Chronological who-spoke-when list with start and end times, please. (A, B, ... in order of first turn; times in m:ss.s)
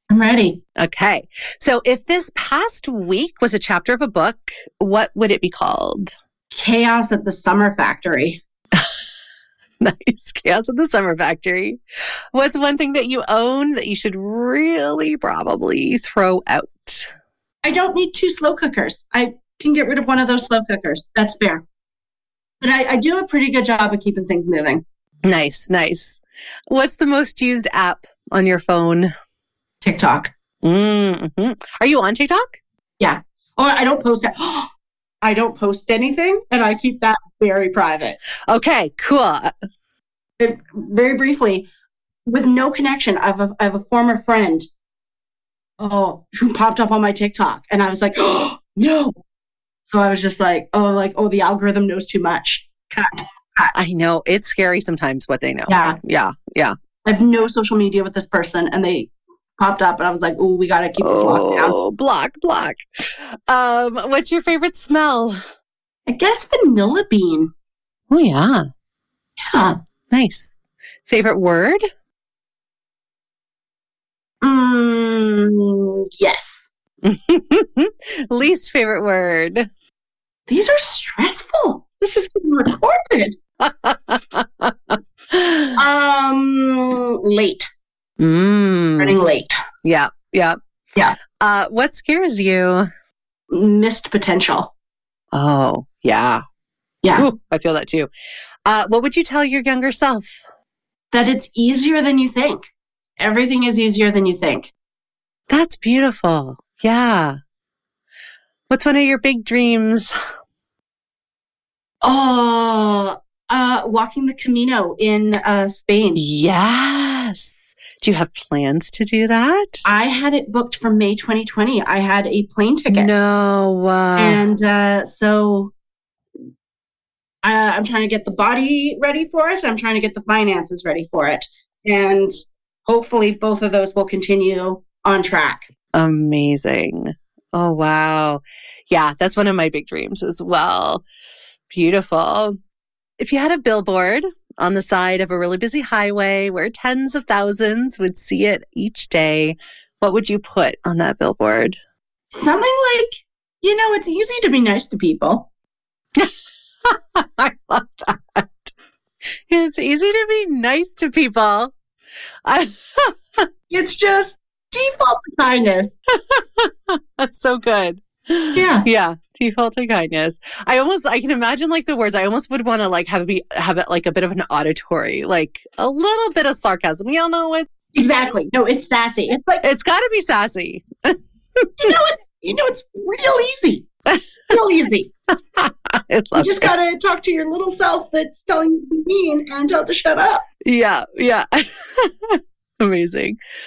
0:00.1-0:00.6 A
0:00.8-0:06.1 B
0:06.5-0:08.4 A
0:09.8-0:11.8 B
0:12.3-0:17.1 B
0:17.6-0:21.6 A
0:22.6-0:24.8 A
0:25.3-0:29.1 B
0:29.8-0:30.3 A
0:30.6-0:32.6 B
0:33.0-0:34.7 A
0:35.2-0:38.2 A
0:38.5-0:39.5 B
0:40.4-0:41.7 A
0:42.3-0:44.7 A
0:45.8-0:49.2 A
0:49.8-0:53.8 A
0:53.7-0:56.8 B
0:55.7-0:56.0 A
0:57.0-1:01.8 A
1:01.0-1:02.8 B
1:03.5-1:05.4 B
1:06.1-1:07.5 A
1:08.1-1:08.7 B
1:09.5-1:09.8 A
1:10.1-1:11.8 B
1:14.4-1:16.7 A
1:17.0-1:19.7 B
1:20.5-1:23.4 A
1:23.6-1:25.8 B
1:25.8-1:27.7 A
1:28.2-1:29.2 B
1:29.0-1:29.5 A
1:29.8-1:30.6 B
1:31.4-1:32.9 B
1:33.5-1:34.7 A
1:35.3-1:36.4 B
1:37.0-1:37.3 A
1:37.2-1:38.1 B
1:38.7-1:40.4 B
1:41.1-1:44.7 A
1:45.5-1:47.4 B
1:48.7-1:50.1 B
1:52.0-1:56.2 A
1:56.2-1:59.8 B
1:59.8-2:03.2 A
2:02.9-2:04.4 B
2:04.2-2:05.7 A
2:07.4-2:12.3 A
2:12.9-2:15.7 A
2:16.0-2:21.0 B
2:21.7-2:22.6 B
2:23.2-2:31.8 B
2:32.3-2:35.5 A
2:36.9-2:38.7 B
2:39.5-2:41.7 B
2:42.5-2:43.1 B
2:43.7-2:46.0 A
2:46.3-2:57.7 B
2:48.6-2:48.9 A
2:57.9-2:59.6 A
2:59.6-3:00.8 B
3:01.6-3:01.9 B
3:01.8-3:03.9 A
3:04.5-3:05.1 A
3:05.6-3:06.7 B
3:06.4-3:10.4 A
3:10.6-3:11.5 B
3:12.0-3:13.4 B